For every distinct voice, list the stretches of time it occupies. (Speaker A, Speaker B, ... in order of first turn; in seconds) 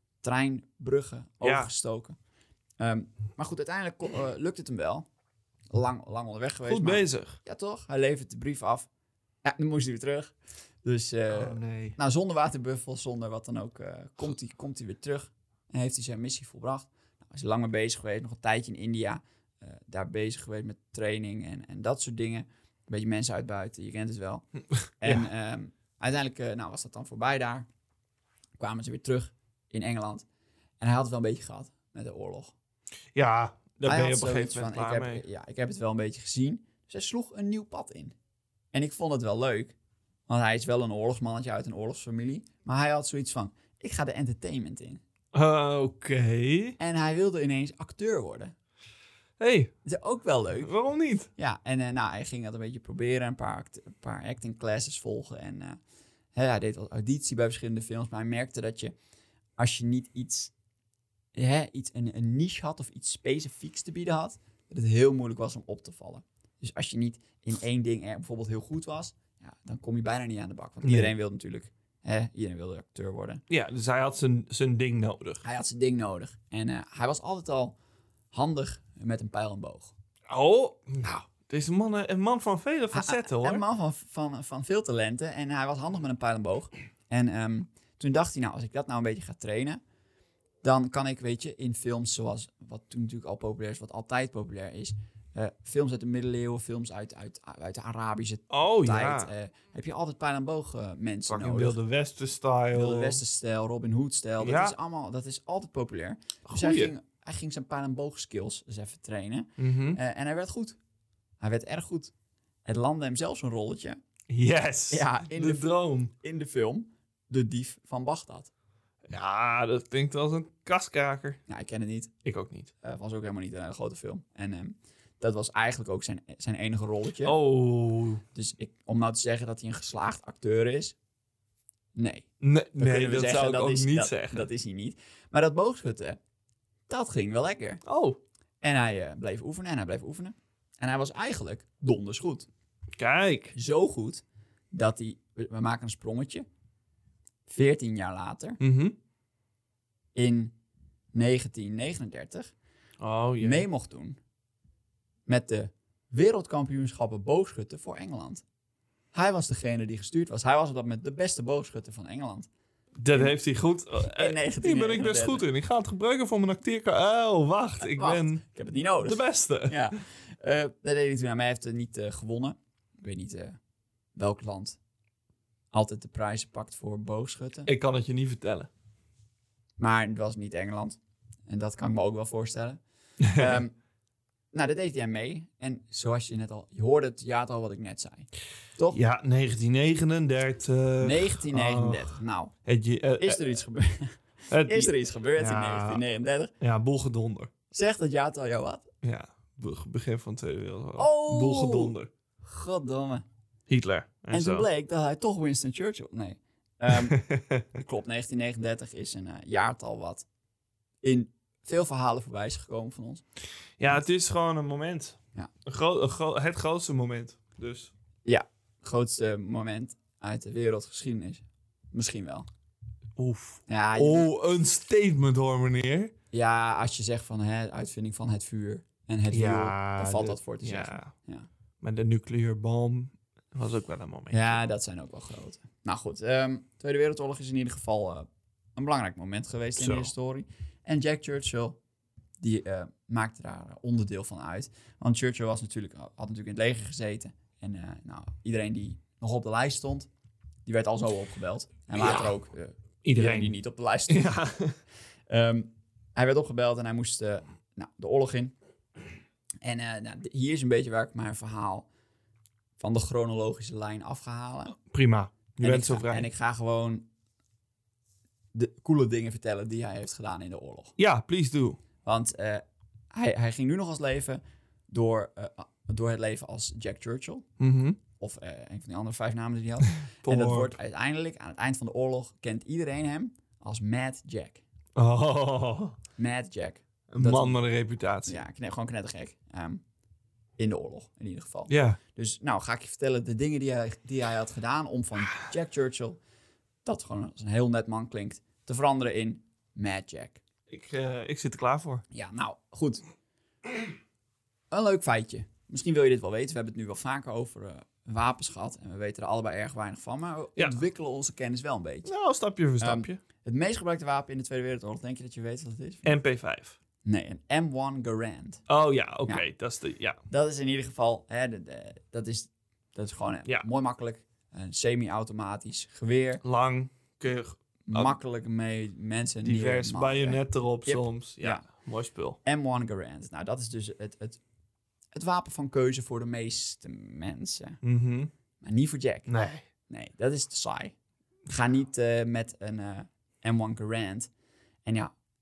Speaker A: 0.2-2.1, 2.8-5.0, 5.7-8.9, 9.4-24.4, 25.0-27.7, 28.6-30.2, 30.8-32.5, 33.8-38.1, 38.7-39.7, 40.3-45.0, 46.8-48.5, 49.8-50.7, 51.4-55.8, 56.3-58.9, 59.6-60.5, 61.3-73.4, 75.4-77.8, 78.3-79.9, 82.9-89.8, 90.6-101.8, 102.7-110.8, 111.4-112.1, 112.7-114.0, 114.9-118.5, 121.5-122.1, 122.8-127.3, 128.3-130.9, 131.9-136.2, 136.9-137.8, 138.6-142.5, 143.5-146.4, 147.5-148.6, 150.1-150.5, 151.1-152.5, 153.4-154.2, 155.3-158.4, 159.1-162.5, 163.9-165.4, 167.8-173.6, 174.1-174.8, 175.7-177.7, 179.8-182.8, 183.3-183.8, 184.5-189.0, 191.0-192.5, 193.2-196.5, 197.7-198.8, 201.0-203.2, 204.3-207.2, 207.7-210.2, 211.0-213.2, 218.2-222.5, 223.7-224.3, 226.3-231.5, 234.3-241.8, 242.4-250.1, 250.7-254.4, 255.3-258.5, 259.6-261.9, 262.8-264.8, 265.6-267.1, 268.5-270.9, 272.0-277.5, 278.2-284.6, 286.2-287.6, 288.2-289.8, 290.6-296.2, 296.8-300.4, 302.1-303.0, 304.7-312.1, 312.8-316.1, 317.0-318.6, 320.3-326.4, 327.9-331.7, 332.4-334.4, 335.1-337.8, 338.6-340.9, 341.5-344.3, 344.8-345.1
Speaker B: 1.4-1.7, 6.6-7.4, 11.3-11.9, 25.0-25.3, 33.1-35.2, 45.3-46.8, 49.4-49.7, 50.6-51.3, 70.8-71.1, 73.5-75.4, 80.3-83.6, 98.5-99.3, 101.3-103.2, 104.4-104.7, 106.5-106.9, 109.6-110.0, 114.3-116.1, 119.1-121.4, 122.2-122.7, 127.2-128.2, 132.4-134.5, 137.8-138.2, 142.9-143.5, 148.6-148.9, 153.0-153.7, 163.0-168.4, 169.0-169.8, 177.7-178.7, 183.2-183.6, 188.9-193.4, 194.5-196.0, 196.6-197.5, 199.0-202.1, 203.7-204.7, 206.9-207.6, 213.8-217.9, 223.2-226.1, 229.3-231.1, 231.8-234.6, 239.8-240.1, 251.9-252.4, 253.0-253.6, 254.1-254.8, 264.8-266.3, 271.0-271.8, 277.6-278.0, 280.1-280.8, 284.9-285.9, 287.1-288.4, 291.7-292.0, 300.7-302.0, 312.1-313.2, 316.0-316.8, 318.7-320.2, 326.4-328.1, 329.4-332.4, 337.8-338.3, 339.3-339.6